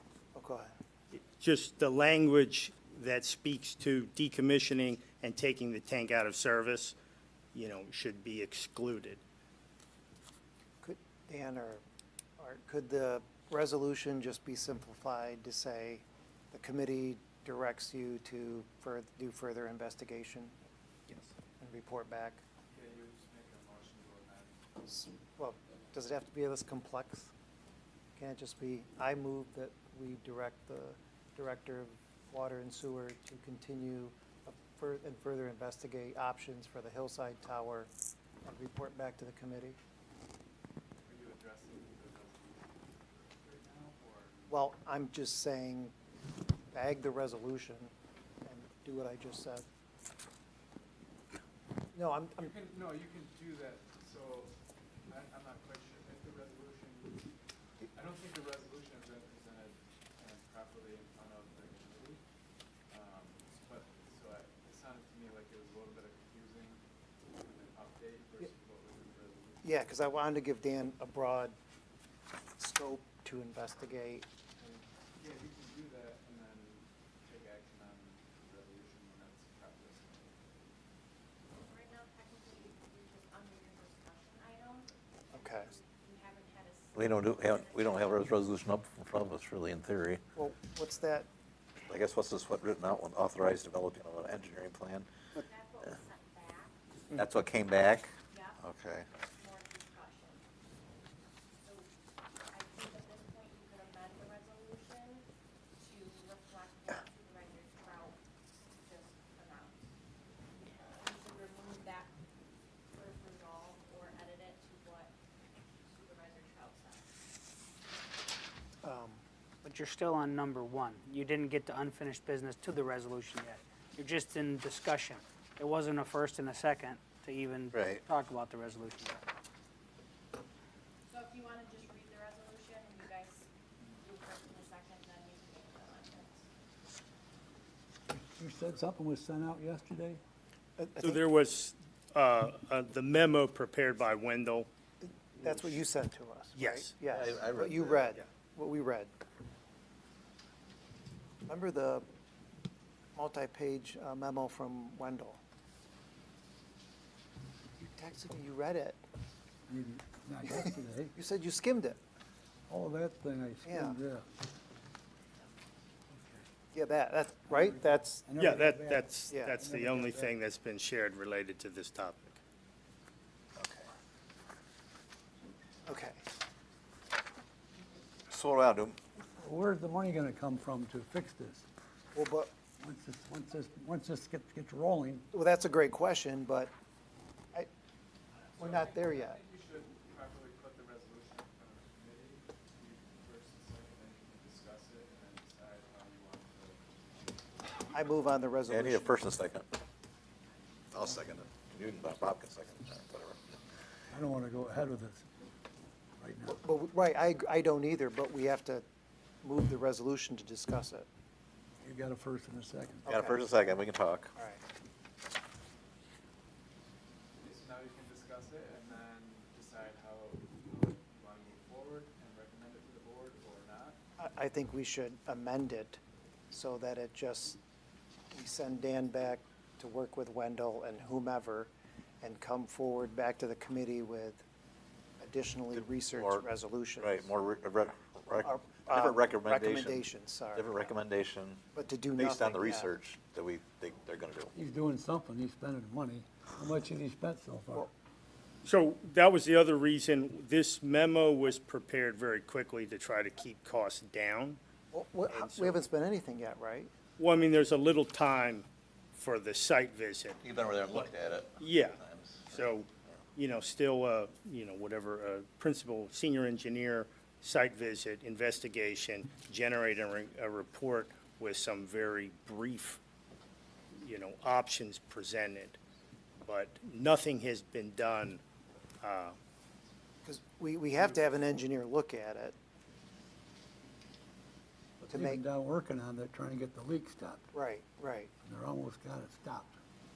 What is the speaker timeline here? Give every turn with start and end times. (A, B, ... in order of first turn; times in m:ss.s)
0:00.3-0:00.7 A
0:01.1-0:07.0 B
0:07.5-0:09.2 B
0:10.8-0:11.8 A
0:12.4-0:20.6 A
0:21.6-0:22.4 A
0:22.7-0:24.6 C
0:24.9-0:27.3 A
0:28.2-0:37.9 A
0:38.4-0:39.8 A
0:41.0-0:44.7 C
0:44.5-0:45.9 A
0:46.7-0:47.9 A
0:48.4-0:49.6 A
0:51.9-0:52.5 A
0:52.4-0:57.3 C
0:57.9-1:02.2 C
1:02.9-1:06.8 C
1:07.4-1:10.1 C
1:09.6-1:11.6 A
1:12.6-1:14.8 A
1:15.2-1:20.7 C
1:21.6-1:28.3 D
1:25.3-1:25.7 A
1:27.0-1:30.2 E
1:30.4-1:31.3 A
1:31.9-1:35.1 E
1:35.4-1:36.8 D
1:37.1-1:39.1 E
1:38.3-1:38.6 D
1:39.2-1:40.5 D
1:41.6-1:41.9 D
1:42.5-1:45.3 D
1:45.8-1:48.2 D
1:48.8-1:49.9 D
1:50.8-1:52.1 D
1:52.9-1:55.1 D
1:55.7-1:57.1 D
1:58.8-1:59.2 A
1:59.7-2:09.2 F
2:07.7-2:08.0 E
2:11.1-2:16.5 D
2:18.1-2:20.2 G
2:20.8-2:21.2 A
2:21.0-2:24.7 B
2:25.4-2:29.1 A
2:26.6-2:26.9 B
2:27.1-2:28.0 E
2:31.5-2:32.1 A
2:33.2-2:35.4 A
2:37.8-2:39.0 A
2:39.7-2:41.2 G
2:40.5-2:42.0 A
2:42.7-2:44.2 G
2:43.6-2:44.0 A
2:46.1-2:46.4 G
2:46.7-2:48.3 A
2:47.5-2:50.3 G
2:48.4-2:52.4 B
2:49.3-2:49.6 A
2:53.6-2:53.9 E
2:55.9-2:56.2 A
2:58.3-2:59.0 E
2:59.4-3:01.7 G
3:02.1-3:02.5 A
3:02.8-3:05.3 G
3:05.3-3:06.7 A
3:08.5-3:17.4 C
3:08.6-3:09.4 A
3:17.9-3:19.3 A
3:18.7-3:19.7 E
3:20.9-3:23.4 E
3:24.1-3:25.3 G
3:26.2-3:26.6 G
3:26.5-3:28.8 A
3:29.4-3:31.1 A
3:31.8-3:33.1 G
3:33.1-3:33.4 A
3:33.1-3:34.3 E
3:34.4-3:34.6 A
3:37.4-3:44.0 C
3:44.2-3:46.0 A
3:46.5-3:47.6 A
3:48.3-3:54.4 A
3:55.2-3:57.3 A
3:55.7-3:56.5 E
3:57.0-4:01.6 E
3:58.4-4:00.8 A
4:01.8-4:02.9 A
4:02.2-4:04.5 E
4:04.5-4:07.9 G
4:08.6-4:14.6 B
4:14.9-4:16.9 A
4:15.3-4:15.8 B
4:17.2-4:20.4 B
4:20.4-4:22.5 E
4:21.6-4:33.0 B
4:33.9-4:35.8 B
4:36.4-4:38.4 B
4:39.0-4:39.4 B
4:40.2-4:42.6 A
4:45.0-4:47.5 G
4:45.1-4:45.4 A
4:47.5-4:48.3 A
4:48.4-4:49.8 G